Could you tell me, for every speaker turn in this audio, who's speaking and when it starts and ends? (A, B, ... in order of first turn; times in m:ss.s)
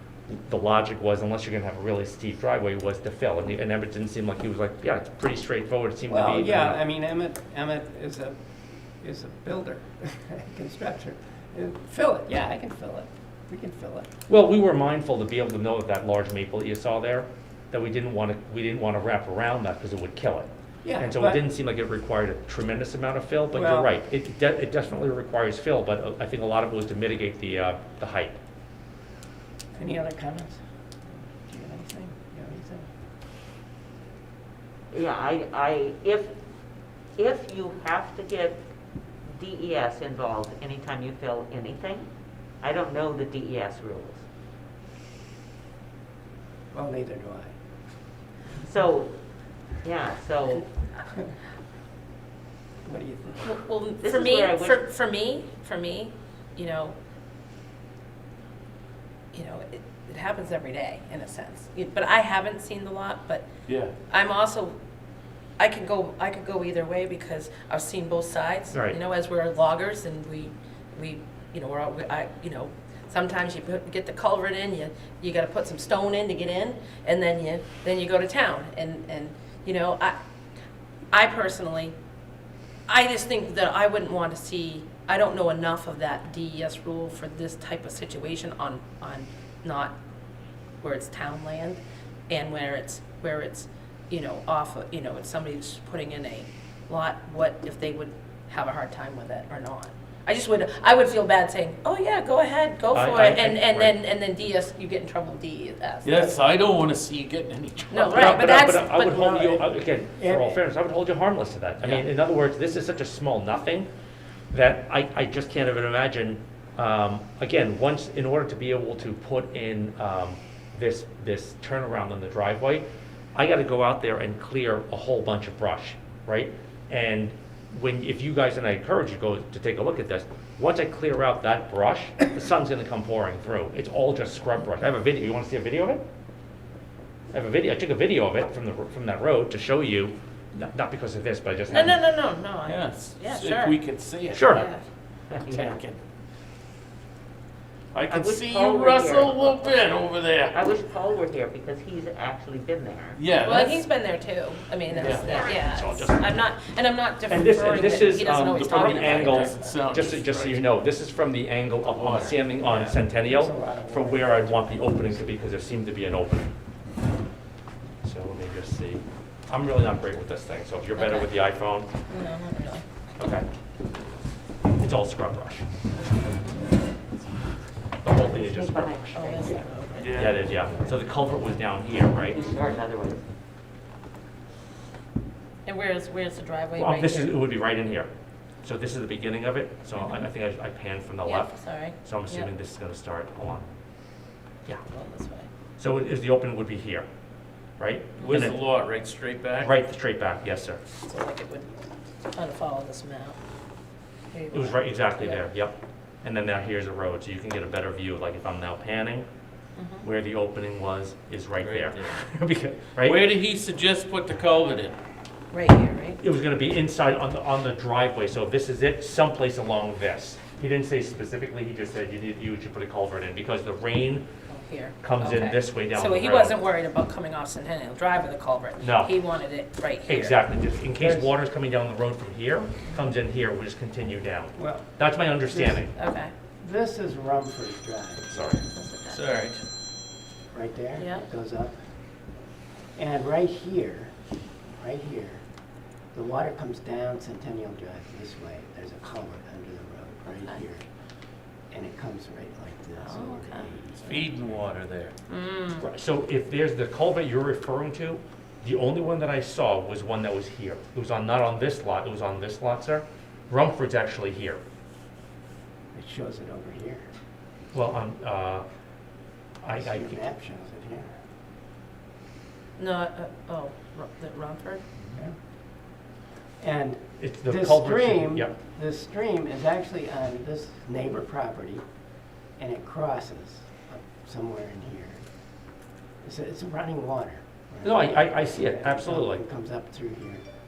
0:00.3-0:06.8 A
0:06.1-0:08.4 B
0:09.0-0:14.1 B
0:14.3-0:28.4 A
0:20.8-0:21.4 B
0:23.5-0:23.9 B
0:29.8-0:30.6 B
0:31.5-0:32.9 B
0:34.9-0:36.3 C
0:37.2-0:38.6 C
0:39.3-0:42.1 C
0:42.6-0:44.2 C
0:46.7-0:47.5 B
0:48.6-0:49.1 C
0:49.8-0:50.7 C
0:52.8-0:53.5 B
0:53.4-0:57.0 D
0:54.0-0:54.9 C
0:59.3-1:03.5 D
1:03.7-1:03.9 E
1:04.1-1:04.8 D
1:05.6-1:20.2 D
1:08.7-1:09.0 A
1:21.1-1:22.0 D
1:22.9-1:30.0 D
1:30.8-1:46.3 D
1:42.9-1:44.0 A
1:46.0-1:48.2 E
1:47.9-1:49.6 D
1:48.0-1:53.9 A
1:49.3-1:50.6 B
1:54.5-2:16.0 A
2:17.3-2:22.0 A
2:21.7-2:23.8 D
2:22.6-2:26.0 E
2:24.3-2:24.7 A
2:24.5-2:24.8 D
2:25.3-2:25.8 C
2:27.9-2:30.7 E
2:28.0-2:33.3 C
2:33.2-2:33.9 E
2:33.4-2:39.8 D
2:35.0-2:35.4 E
2:35.2-2:35.6 C
2:35.2-2:36.3 A
2:37.3-2:46.5 A
2:38.4-2:40.7 E
2:41.9-2:42.4 E
2:42.6-2:45.4 B
2:48.0-2:51.9 A
2:51.0-2:51.3 D
2:52.1-2:52.8 D
2:53.2-2:53.5 A
2:54.8-2:55.7 A
2:58.0-2:59.2 A
2:58.1-3:00.4 C
2:59.2-3:00.1 D
3:00.0-3:00.4 E
3:00.1-3:02.4 A
3:02.3-3:03.2 C
3:05.6-3:07.4 D
3:06.8-3:08.1 A
3:08.6-3:13.7 A
3:10.0-3:10.3 D
3:11.2-3:12.5 D
3:14.9-3:15.5 D
3:15.8-3:17.1 A
3:17.8-3:18.6 A
3:18.2-3:19.8 E
3:19.6-3:20.8 A
3:21.0-3:21.8 D
3:22.3-3:23.4 D
3:24.3-3:25.5 D
3:24.5-3:29.3 A
3:29.8-3:30.1 D
3:30.0-3:33.2 A
3:31.6-3:32.2 E
3:33.0-3:35.0 E
3:35.5-3:36.2 D
3:36.2-3:44.2 A
3:44.5-3:50.4 D
3:45.0-3:46.6 A
3:48.8-3:49.2 A
3:50.1-3:56.0 A
3:51.0-3:51.3 B
3:54.6-3:55.9 B
3:56.0-3:56.3 D
3:56.6-3:58.6 B
3:58.3-3:58.7 A
3:58.7-3:59.3 D
3:59.1-3:59.6 E
4:00.5-4:01.8 B
4:01.0-4:01.3 D
4:03.0-4:04.2 B
4:04.8-4:05.4 B
4:06.1-4:10.8 B
4:11.7-4:14.3 B
4:13.0-4:13.7 D
4:14.0-4:15.1 E
4:15.3-4:15.9 D
4:15.8-4:24.6 A
4:25.9-4:27.1 B
4:27.7-4:28.7 A
4:29.6-4:30.3 A
4:29.7-4:31.1 B
4:32.8-4:34.8 D
4:36.6-4:41.8 B
4:37.2-4:38.5 A
4:42.6-4:45.2 B
4:46.2-4:50.4 B
4:47.8-4:49.4 A